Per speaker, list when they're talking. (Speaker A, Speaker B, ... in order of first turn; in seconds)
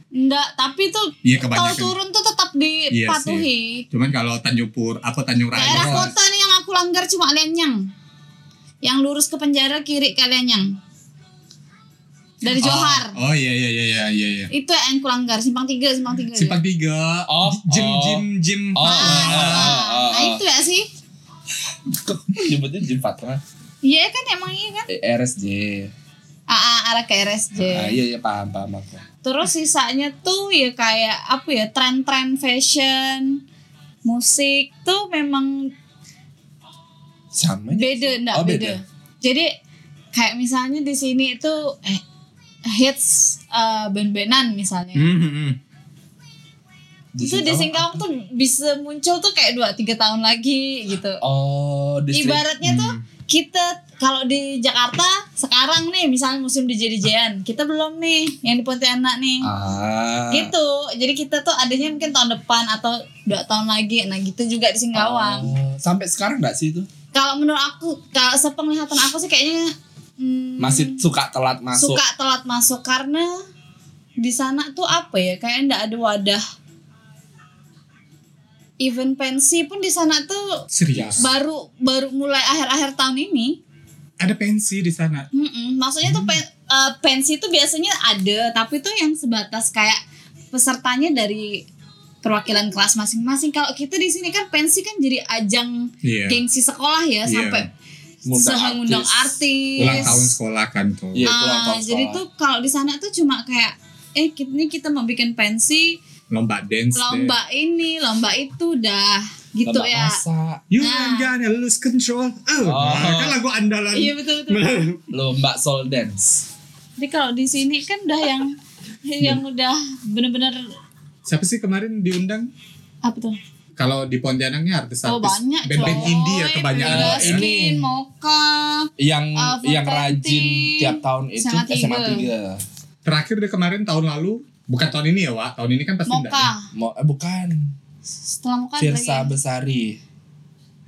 Speaker A: 0.1-3.8, 5.5-7.9, 8.8-10.8, 12.4-13.2, 14.5-16.6, 18.8-20.9, 23.8-24.9, 26.5-28.0, 29.2-33.4, 34.0-35.7, 37.7-39.5, 40.1-42.0, 42.7-45.1, 47.2-51.2, 52.1-59.5, 60.3-65.5, 67.1-71.0, 71.8-73.4, 74.2-76.4, 78.8-80.6, 81.2-83.6, 85.3-90.0, 90.5-91.6, 92.2-97.7, 98.3-100.3, 101.2-106.0, 107.0-110.2, 110.8-111.3, 113.9-114.7, 117.0-120.7, 123.0-123.4, 125.0-132.3, 136.1-136.7, 138.2-139.3
Speaker B: 1.2-1.9, 2.9-6.1, 12.4-14.5, 16.3-19.8, 44.9-45.6, 52.6-53.0, 80.7-81.3, 84.2-85.3, 86.0-86.4, 96.0-96.4, 97.2-97.7, 99.8-101.3, 106.3-107.3, 110.7-115.1, 121.2-122.5, 123.8-127.4, 133.0-136.5
Speaker C: 5.7-6.1, 17.3-20.4, 21.7-23.4, 24.9-25.9, 27.6-29.0, 37.3-38.8, 47.1-48.0, 51.2-52.4, 59.4-60.5, 64.9-66.9, 70.6-72.0, 80.9-81.2, 98.2-100.3, 101.1-102.2, 109.6-110.6, 112.6-113.4, 115.1-116.4, 125.8-126.1, 126.8-127.9, 129.0-132.6, 136.7-137.7, 138.8-140.0